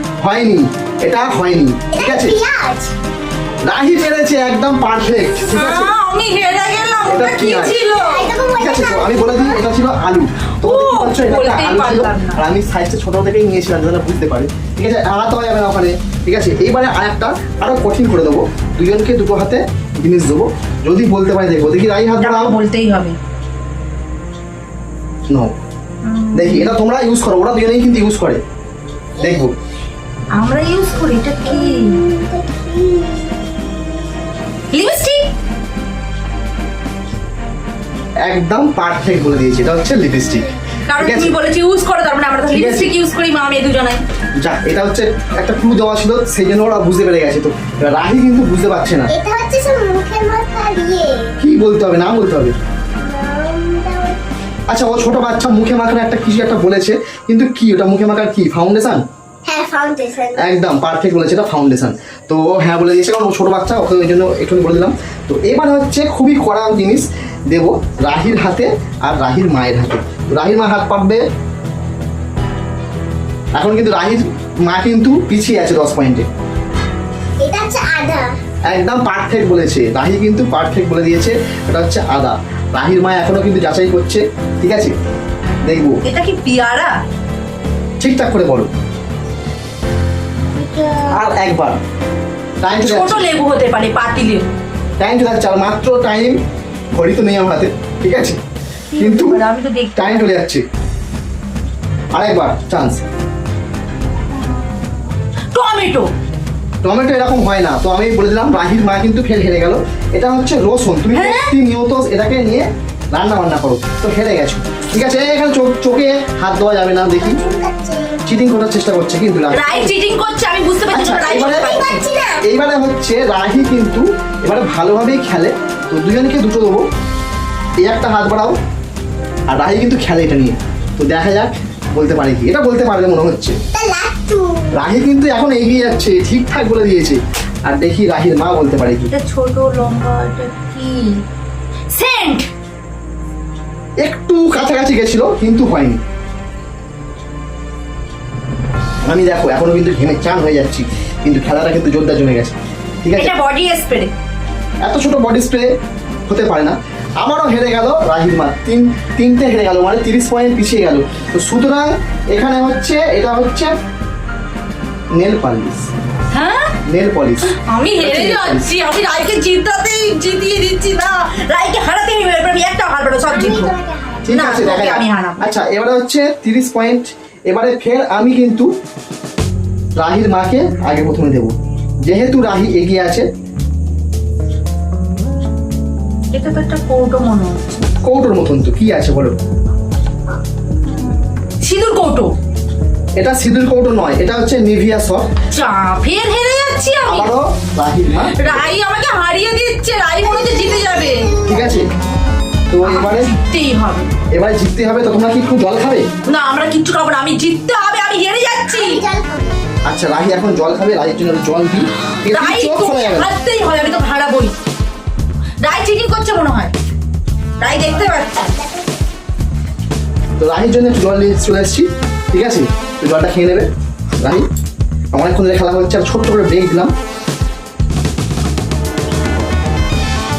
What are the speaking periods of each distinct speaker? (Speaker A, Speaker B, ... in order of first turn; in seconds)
Speaker A: 0.2-2.4, 3.6-5.9, 7.0-7.8, 8.6-22.5, 25.3-25.5, 26.3-28.4, 29.2-29.5, 38.2-41.3, 42.5-42.9, 44.4-49.1, 51.4-52.5, 54.7-59.0, 60.4-71.2, 73.5-76.3, 78.7-84.9, 85.6-86.0, 88.0-88.7, 91.1-91.8, 92.6-93.2, 95.0-96.4, 96.9-98.4, 99.0-99.4, 100.0-100.6, 102.1-103.0, 106.8-117.4, 118.2-119.9, 120.9-121.8, 122.4-126.8, 127.8-128.6, 129.5-133.6, 134.7-139.1, 144.0-146.0, 149.1-153.3, 154.8-155.7, 156.3-163.7, 165.2-165.9, 166.9-168.7, 174.2-178.7, 180.0-183.2, 188.0-189.3, 193.2-195.3, 197.1-198.6, 201.4-201.9, 202.7-203.3, 204.3-206.1, 209.9-213.3, 220.4-224.4, 225.1-226.9
Speaker B: 1.9-2.9, 7.9-9.6, 29.2-29.5, 31.4-34.0, 49.1-51.3, 53.0-54.2, 59.5-60.5, 77.4-78.3, 90.5-91.2, 117.1-118.2, 121.4-122.4, 133.7-134.7, 173.3-174.5, 200.2-201.9, 208.7-209.6, 217.9-219.0
Speaker C: 5.5-8.3, 10.6-12.4, 22.2-23.2, 26.0-26.8, 30.3-32.0, 34.7-35.3, 40.9-44.0, 86.0-86.9, 92.8-94.5, 98.9-100.3, 105.5-106.1, 111.1-111.5, 119.5-122.0, 139.1-141.2, 141.9-142.5, 153.2-154.1, 166.3-166.7, 167.4-173.7, 174.3-175.5, 186.3-187.8, 191.6-192.3, 195.5-197.3, 198.3-201.3, 202.8-204.1, 206.3-209.0, 212.2-214.5, 215.6-216.7, 217.6-218.5